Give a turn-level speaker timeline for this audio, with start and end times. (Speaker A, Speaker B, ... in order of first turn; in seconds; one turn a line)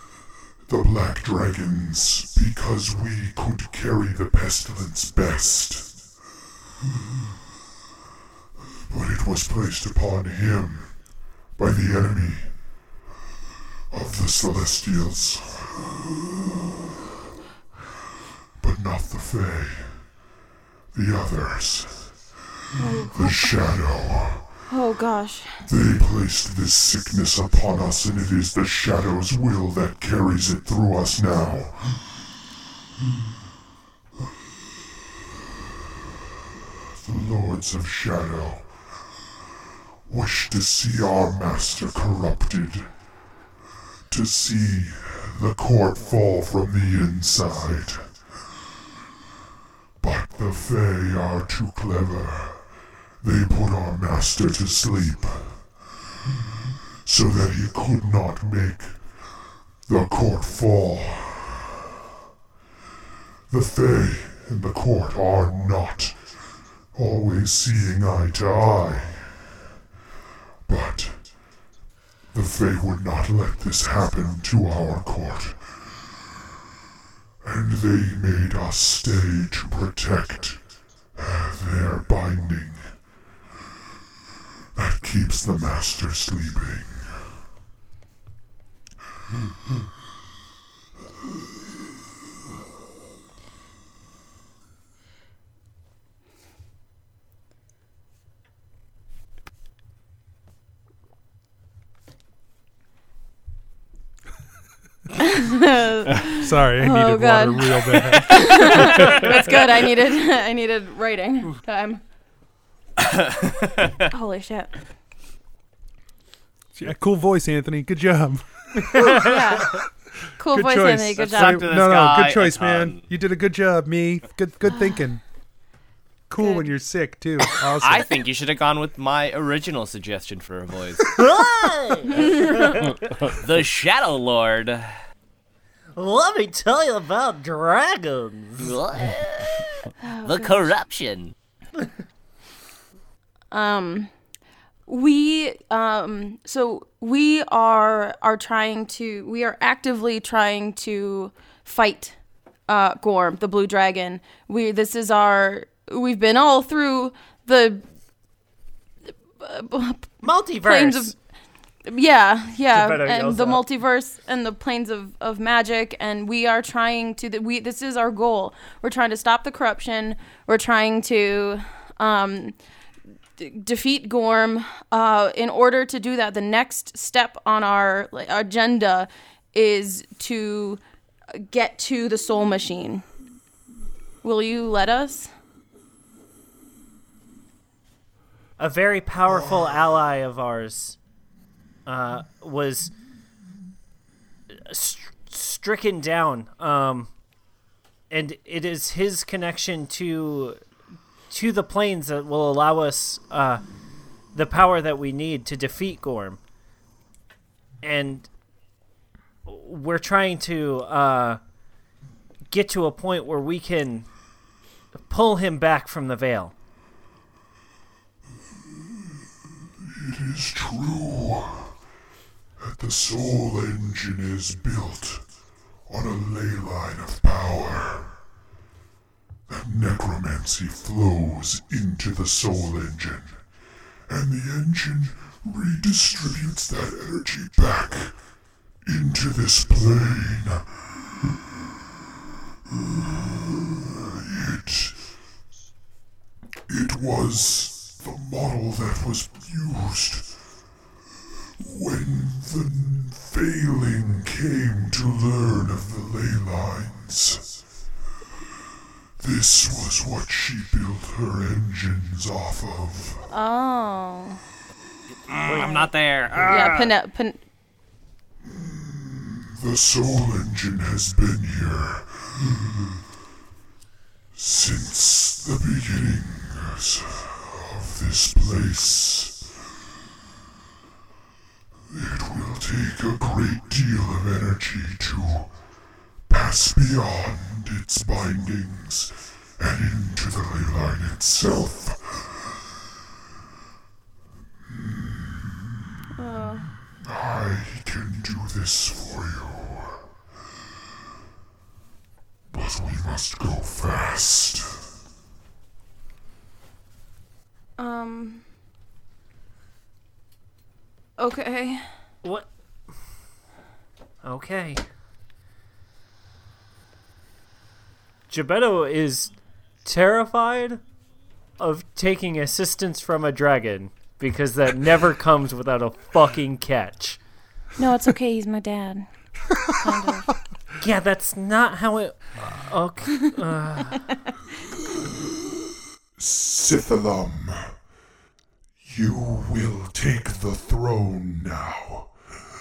Speaker A: 0.7-6.0
Speaker A: 8.9-10.9
Speaker A: 11.6-12.6
Speaker A: 13.9-15.8
Speaker A: 18.6-20.1
Speaker A: 20.9-22.2
Speaker B: 22.8-23.5
Speaker A: 23.0-24.5
Speaker B: 24.7-25.6
Speaker A: 25.6-32.0
Speaker A: 37.0-38.7
Speaker A: 40.1-42.9
Speaker A: 44.1-48.1
Speaker A: 50.0-52.6
Speaker A: 53.2-55.6
Speaker A: 57.0-59.0
Speaker A: 59.9-61.9
Speaker A: 63.5-66.2
Speaker A: 66.9-69.4
Speaker A: 70.7-71.3
Speaker A: 72.3-75.6
Speaker A: 77.4-80.6
Speaker A: 81.2-83.0
Speaker A: 84.8-87.4
Speaker B: 105.2-112.0
Speaker C: 106.4-109.2
Speaker D: 113.1-113.9
Speaker B: 114.1-114.7
Speaker C: 116.8-119.3
Speaker B: 119.0-119.8
Speaker B: 120.4-121.7
Speaker C: 120.5-125.2
Speaker D: 121.2-123.0
Speaker B: 124.7-125.0
Speaker C: 126.3-128.1
Speaker B: 126.4-126.7
Speaker D: 127.8-131.1
Speaker E: 131.2-132.3
Speaker D: 133.3-134.9
Speaker E: 136.0-138.7
Speaker D: 138.6-139.7
Speaker B: 140.0-140.7
Speaker D: 140.2-141.3
Speaker B: 143.5-144.1
Speaker B: 144.9-152.2
Speaker B: 152.7-157.8
Speaker B: 159.4-161.2
Speaker E: 160.2-161.1
Speaker B: 161.9-172.6
Speaker E: 162.7-163.6
Speaker B: 173.4-180.8
Speaker B: 181.3-183.1
Speaker B: 184.2-185.3
Speaker E: 188.6-191.0
Speaker E: 191.9-192.9
Speaker E: 194.7-197.1
Speaker E: 198.1-200.6
Speaker E: 201.3-203.6
Speaker E: 204.3-206.4
Speaker E: 207.8-208.3
Speaker E: 209.5-211.4
Speaker E: 212.5-214.1
Speaker E: 215.1-216.5
Speaker A: 219.8-221.8
Speaker A: 222.6-225.2
Speaker A: 225.9-228.2
Speaker A: 229.5-233.4
Speaker A: 234.1-238.2
Speaker A: 238.8-240.8
Speaker A: 242.7-245.1
Speaker A: 246.7-250.3
Speaker A: 251.6-257.6
Speaker A: 259.2-263.3
Speaker B: 263.3-264.4
Speaker D: 265.3-266.9
Speaker B: 265.5-265.9
Speaker B: 266.4-267.4
Speaker A: 268.4-273.0
Speaker A: 274.3-279.5
Speaker A: 281.9-285.5
Speaker A: 286.3-292.5
Speaker A: 294.7-300.1
Speaker B: 296.2-296.7
Speaker A: 302.5-304.9
Speaker B: 307.8-308.4
Speaker B: 311.2-311.9
Speaker E: 312.2-312.5
Speaker E: 314.2-314.8
Speaker E: 318.3-319.3
Speaker E: 319.9-320.8
Speaker E: 321.6-327.2
Speaker B: 327.8-329.1
Speaker B: 329.6-330.3
Speaker E: 330.8-334.1
Speaker A: 335.0-335.3
Speaker A: 336.2-337.7
Speaker A: 338.9-342.1